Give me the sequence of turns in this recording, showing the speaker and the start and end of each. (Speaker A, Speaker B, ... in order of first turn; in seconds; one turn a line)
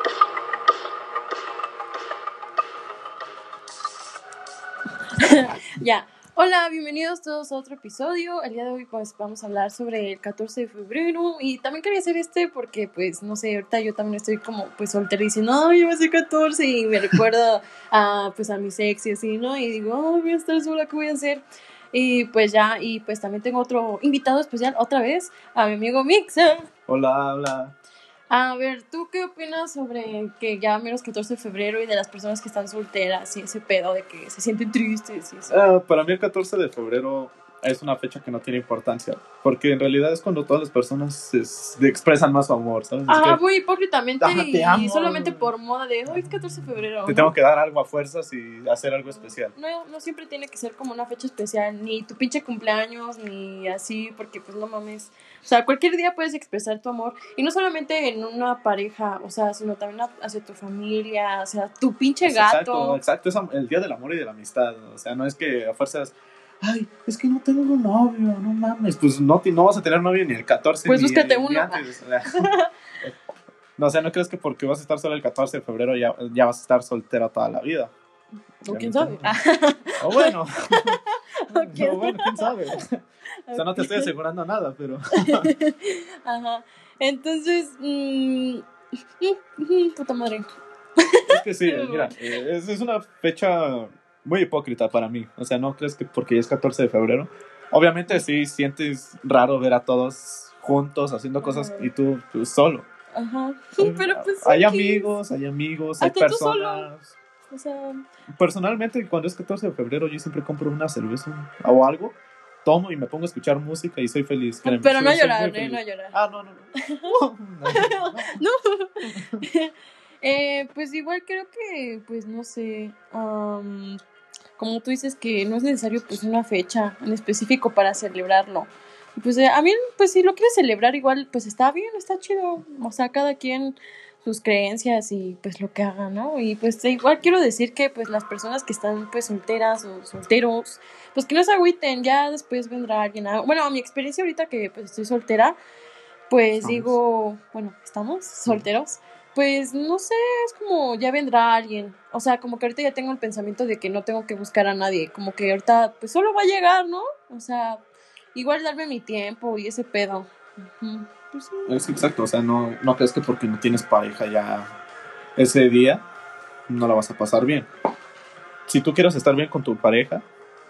Speaker A: 5.1-26.7
Speaker B: 26.9-27.8
Speaker A: 28.3-35.5
Speaker B: 35.5-43.4
Speaker A: 43.1-47.3
Speaker B: 44.2-45.5
Speaker B: 47.0-49.5
Speaker A: 49.1-63.0
Speaker B: 62.2-72.5
Speaker A: 70.8-72.7
Speaker B: 73.8-77.9
Speaker A: 78.7-80.3
Speaker B: 78.7-79.3
Speaker B: 80.0-81.0
Speaker A: 81.0-82.5
Speaker B: 81.5-85.5
Speaker A: 83.5-84.1
Speaker A: 85.2-88.6
Speaker A: 89.2-90.5
Speaker A: 91.0-92.1
Speaker B: 91.3-102.9
Speaker A: 101.4-101.9
Speaker A: 103.1-105.2
Speaker B: 103.8-107.1
Speaker A: 106.0-106.9
Speaker A: 107.5-108.0
Speaker B: 108.3-118.4
Speaker A: 114.6-116.2
Speaker A: 116.8-117.1
Speaker A: 117.7-124.0
Speaker B: 119.0-119.4
Speaker A: 124.6-145.6
Speaker A: 146.3-161.7
Speaker B: 146.6-147.0
Speaker B: 161.7-164.7
Speaker B: 165.3-166.0
Speaker B: 166.7-167.7
Speaker B: 168.7-170.2